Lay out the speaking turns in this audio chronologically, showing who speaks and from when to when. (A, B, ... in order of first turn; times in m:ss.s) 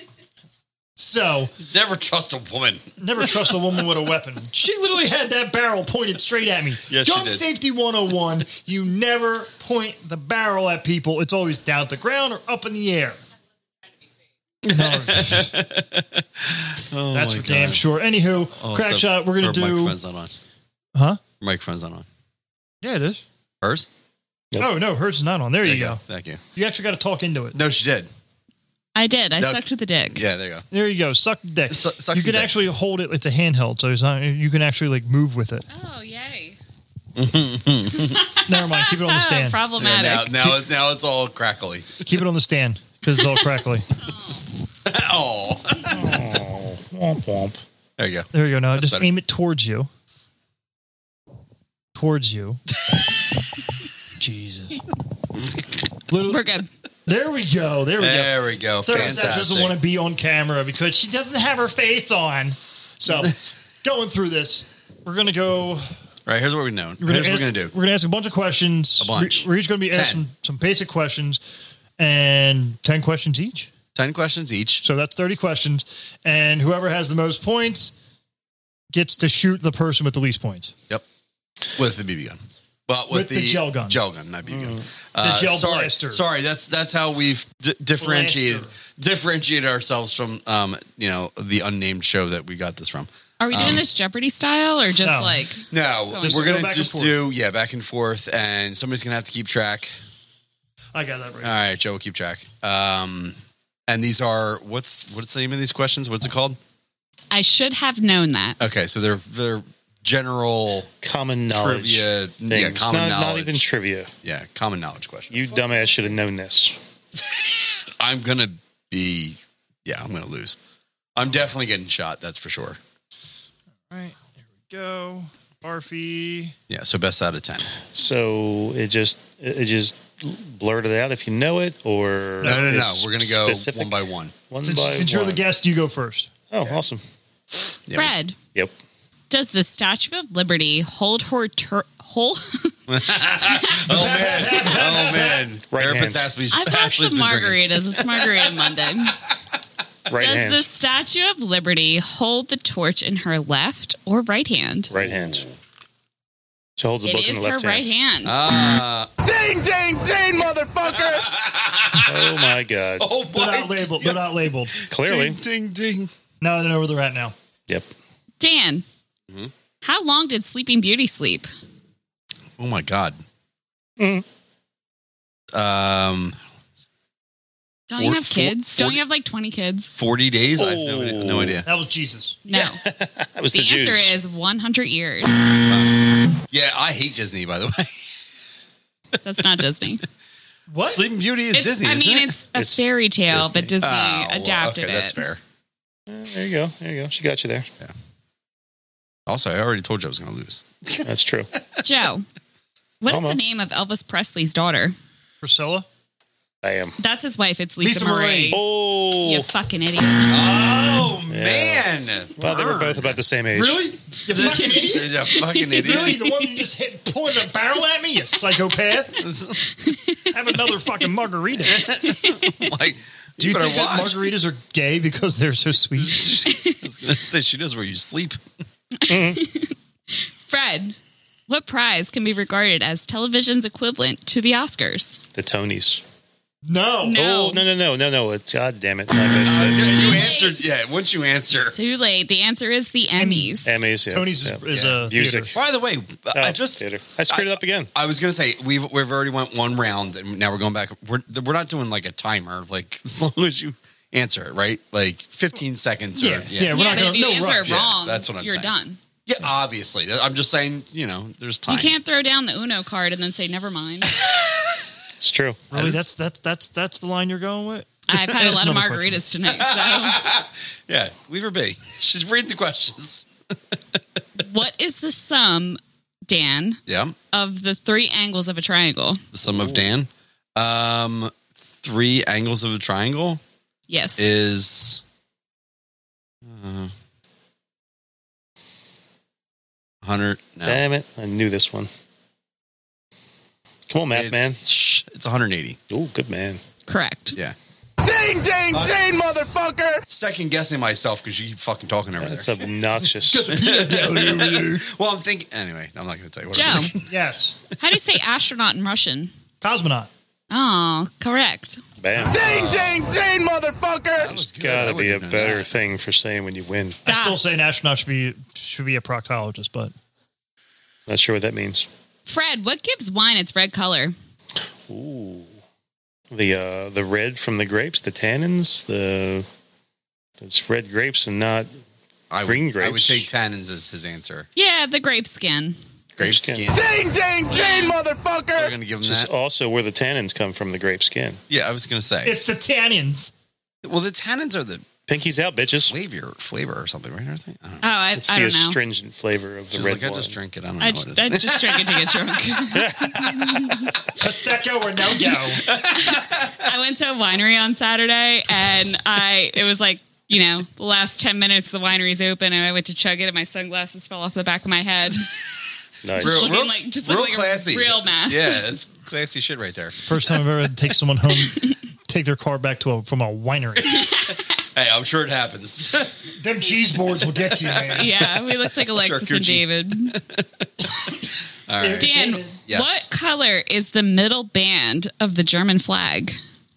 0:01.0-0:01.5 A
0:01.6-0:02.8 B
0:03.0-0:13.2 A
0:06.9-0:07.4 B
0:14.6-0:17.8 B
0:14.7-0:15.6 A
0:17.1-0:20.0 A
0:18.6-0:20.3 B
0:21.0-0:21.2 A
0:21.4-0:22.1 B
0:22.8-0:23.2 A
0:23.6-0:23.9 B
0:24.6-0:26.0 A
0:25.6-0:26.4 B
0:26.6-0:27.6 A
0:27.5-0:28.1 B
0:29.0-0:30.2 C
0:29.4-0:30.6 B
0:30.7-0:35.6 A
0:31.7-0:32.6 B
0:35.7-0:36.6 C
0:37.2-0:38.3 B
0:37.9-0:40.5 C
0:38.4-0:39.6 A
0:39.8-0:42.1 B
0:42.0-0:43.9 A
0:44.0-0:44.4 C
0:44.8-0:46.2 B
0:45.9-0:47.6 D
0:48.0-0:49.1 B
0:48.3-0:49.9 A
0:52.0-0:52.6 A
0:54.2-0:54.8 A
0:56.1-0:56.4 A
0:56.3-0:56.7 C
0:57.1-1:05.9 A
0:58.0-0:59.8 B
1:03.1-1:03.4 B
1:06.3-1:07.7 B
1:07.0-1:11.4 A
1:09.0-1:10.2 B
1:12.0-1:13.7 A
1:14.0-1:14.8 B
1:14.8-1:17.9 A
1:18.9-1:20.7 A
1:21.7-1:33.8 B
1:23.1-1:24.0 A
1:24.5-1:24.8 D
1:25.2-1:26.2 A
1:28.0-1:28.7 A
1:33.4-1:36.5 C
1:35.0-1:35.4 A
1:35.7-1:39.9 B
1:36.2-1:37.2 A
1:40.9-1:41.5 A
1:41.4-1:43.4 B
1:43.9-1:46.6 B
1:47.3-1:48.6 C
1:48.6-1:50.9 B
1:51.0-1:54.1 D
1:51.5-1:53.6 B
1:54.2-1:55.4 B
1:55.3-1:56.8 D
1:58.0-2:00.6 B
2:01.2-2:02.8 B
2:03.9-2:06.6 A
2:06.7-2:07.7 B
2:07.9-2:15.4 D
2:12.4-2:12.8 A
2:12.4-2:14.3 B
2:14.6-2:16.3 A
2:16.5-2:17.0 D
2:17.9-2:18.1 B
2:17.9-2:18.4 C
2:19.3-2:23.8 C
2:22.9-2:28.7 B
2:23.7-2:25.5 A
2:25.7-2:26.3 D
2:26.5-2:29.2 C
2:30.1-2:30.7 D
2:30.1-2:34.9 C
2:34.9-2:35.4 D
2:34.9-2:35.6 B
2:36.8-2:37.9 D
2:37.0-2:38.4 C
2:38.2-2:39.1 B
2:39.2-2:41.3 E
2:40.9-2:46.1 B
2:41.9-2:43.1 D
2:43.3-2:44.8 A
2:44.9-2:45.4 D
2:46.4-2:47.4 A
2:48.4-2:48.8 C
2:49.8-2:51.5 C
2:52.6-2:53.2 B
2:54.0-2:54.2 D
2:55.5-2:56.4 B
2:57.9-2:59.9 C
2:58.0-2:59.0 B
2:59.9-3:01.7 B
3:00.6-3:01.6 D
3:01.6-3:02.4 A
3:02.5-3:02.8 C
3:02.5-3:04.2 D
3:03.5-3:05.5 C
3:05.7-3:08.1 B
3:09.2-3:10.0 C
3:10.7-3:11.0 A
3:10.8-3:12.4 B
3:11.5-3:15.2 C
3:12.6-3:13.8 D
3:13.8-3:15.4 B
3:16.1-3:17.7 D
3:19.3-3:21.0 B
3:21.0-3:21.5 D
3:21.8-3:22.2 C
3:23.0-3:24.9 C
3:23.1-3:23.4 D
3:25.4-3:25.9 A
3:26.6-3:27.0 D
3:27.0-3:30.4 C
3:27.8-3:28.6 A
3:28.5-3:29.5 D
3:30.3-3:33.2 B
3:31.2-3:33.8 D
3:33.5-3:39.2 A
3:34.3-3:36.3 B
3:35.3-3:36.5 C
3:39.2-3:39.8 B
3:39.8-3:40.3 C
3:40.3-3:41.9 A
3:41.7-3:44.3 B
3:41.8-3:42.7 C
3:43.4-3:46.3 A
3:45.9-3:48.4 B
3:46.5-3:46.8 C
3:49.0-3:51.0 C
3:49.1-3:49.4 D
3:51.5-3:55.2 C
3:55.3-3:56.0 D
3:56.6-3:57.2 A
3:57.0-3:57.6 C
3:57.1-4:00.3 D
3:59.3-4:01.8 B
3:59.9-4:00.6 C
4:01.7-4:03.8 C
4:03.2-4:05.5 A
4:03.6-4:05.5 D
4:05.6-4:18.7 B
4:06.3-4:07.9 D
4:16.2-4:17.8 A
4:16.7-4:19.0 C
4:19.2-4:21.9 B
4:21.7-4:24.3 C
4:25.2-4:25.7 D
4:25.7-4:29.3 A
4:25.7-4:26.0 B
4:28.1-4:30.2 C
4:29.6-4:33.3 B
4:34.4-4:36.8 C
4:36.9-4:37.2 B
4:37.3-4:39.2 C
4:39.3-4:43.4 B
4:39.4-4:39.9 D
4:43.9-4:44.2 C
4:44.2-4:45.0 B
4:46.4-4:46.9 B
4:50.0-4:50.8 B
4:50.6-4:51.9 D
4:53.9-4:54.6 D
4:54.1-4:55.8 B
4:55.9-4:56.6 D
4:56.9-4:57.4 C
4:58.0-5:00.0 E
4:58.7-4:59.5 B
5:00.1-5:02.6 B
5:02.2-5:03.6 D
5:03.2-5:04.9 A
5:03.5-5:07.1 B
5:06.5-5:07.0 C
5:06.6-5:07.6 A
5:07.8-5:09.3 C
5:09.6-5:10.1 A
5:10.5-5:11.8 C
5:12.0-5:12.6 D
5:12.3-5:14.4 E
5:14.2-5:15.7 B
5:14.4-5:17.0 D
5:17.0-5:19.9 A
5:17.1-5:17.4 C
5:21.1-5:21.9 D
5:22.2-5:24.1 C
5:24.9-5:25.5 D
5:26.3-5:29.5 D
5:30.4-5:31.7 D
5:32.3-5:34.5 B
5:32.4-5:33.3 D
5:34.6-5:35.8 C
5:36.2-5:36.7 D
5:36.2-5:37.0 B
5:36.7-5:38.8 E
5:37.5-5:38.0 C
5:38.5-5:39.3 B
5:39.0-5:41.4 D
5:41.5-5:42.4 B
5:42.2-5:43.3 A
5:43.8-5:44.9 B
5:45.1-5:46.0 D
5:45.9-5:47.8 B
5:47.8-5:48.8 C
5:48.2-5:50.4 D
5:49.7-5:52.3 B
5:50.8-5:54.0 C
5:52.7-5:53.9 D
5:54.1-5:55.7 A
5:55.6-5:56.6 B
5:55.7-6:05.3 C
6:06.0-6:06.5 D
6:06.1-6:10.2 B
6:06.2-6:08.6 C
6:10.1-6:14.2 A
6:13.9-6:14.4 C
6:14.7-6:16.2 B
6:16.4-6:18.1 A
6:17.3-6:22.1 B
6:18.0-6:20.2 C
6:21.8-6:22.5 A
6:22.0-6:26.4 C
6:22.6-6:23.1 B